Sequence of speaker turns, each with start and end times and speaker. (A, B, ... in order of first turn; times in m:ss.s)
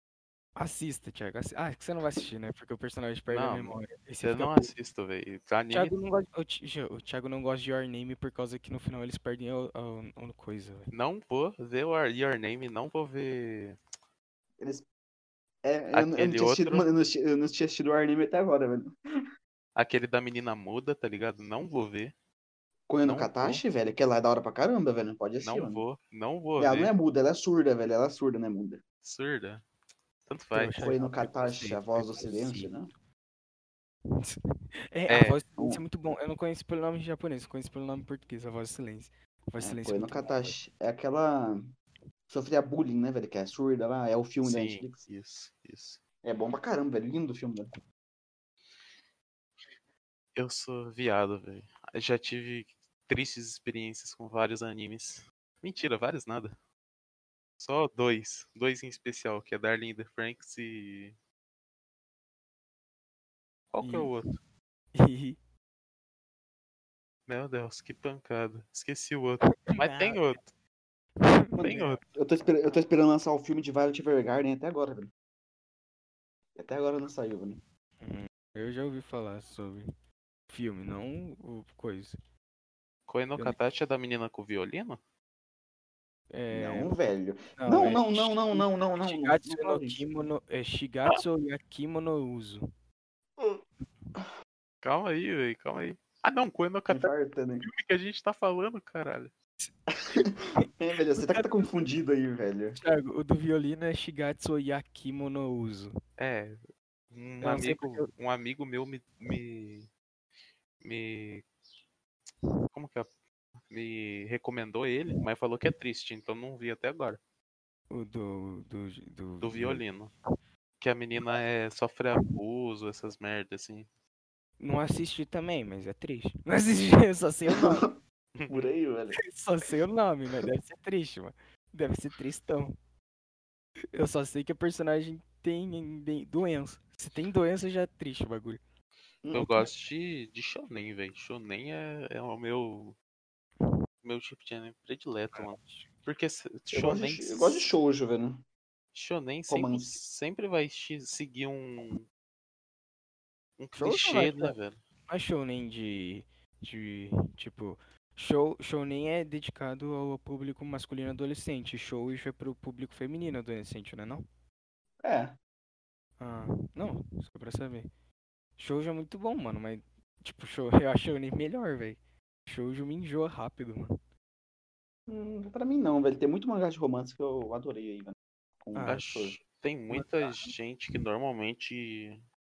0:00.6-0:04.7 A
0:03.3-0:05.9 B
0:05.7-0:10.9 A
0:10.9-0:13.8 B
0:14.6-0:14.8 C
0:15.6-0:18.9 C
0:15.9-0:16.8 B
0:19.8-0:22.1 B
0:22.9-0:25.8 C
0:23.0-0:23.6 B
0:25.4-0:26.9 B
0:26.6-0:28.8 C
0:29.0-0:29.6 B
0:30.2-0:32.4 B
0:30.5-0:32.7 A
0:30.8-0:32.9 C
0:34.9-0:40.5 A
0:35.1-0:35.4 B
0:39.6-0:41.7 C
0:42.3-0:45.0 C
0:44.4-0:46.0 B
0:46.2-0:47.7 C
0:50.4-0:56.5 B
0:57.6-1:01.2 B
1:03.7-1:04.4 B
1:03.8-1:04.1 A
1:04.9-1:05.4 A
1:07.3-1:10.4 B
1:09.5-1:10.5 A
1:11.2-1:11.8 A
1:11.6-1:15.1 C
1:11.6-1:12.0 B
1:16.6-1:17.6 C
1:18.0-1:19.9 A
1:20.5-1:22.2 A
1:23.1-1:25.0 B
1:26.3-1:26.9 A
1:26.5-1:30.0 C
1:27.6-1:32.6 A
1:34.8-1:39.3 B
1:36.9-1:37.7 C
1:39.6-1:40.6 A
1:39.9-1:42.8 C
1:42.8-1:45.9 A
1:46.2-1:46.6 B
1:47.1-1:49.9 B
1:47.4-1:48.1 A
1:50.8-1:51.5 B
1:52.7-1:53.1 B
1:53.7-1:57.2 B
1:57.9-1:59.8 A
1:59.4-2:00.1 B
2:00.8-2:03.9 B
2:04.6-2:07.9 A
2:07.5-2:09.2 C
2:08.3-2:08.6 B
2:09.2-2:12.7 A
2:13.9-2:18.6 A
2:19.2-2:19.7 C
2:19.3-2:22.9 B
2:24.0-2:27.7 B
2:25.3-2:25.9 A
2:26.7-2:28.4 C
2:28.9-2:32.0 B
2:29.5-2:30.0 C
2:33.6-2:34.8 B
2:33.8-2:34.5 A
2:35.1-2:44.2 A
2:45.0-2:45.4 C
2:46.2-2:47.9 A
2:48.6-2:53.9 A
2:55.1-2:59.4 C
2:58.7-2:59.0 A
2:58.9-3:02.2 B
2:59.9-3:00.5 A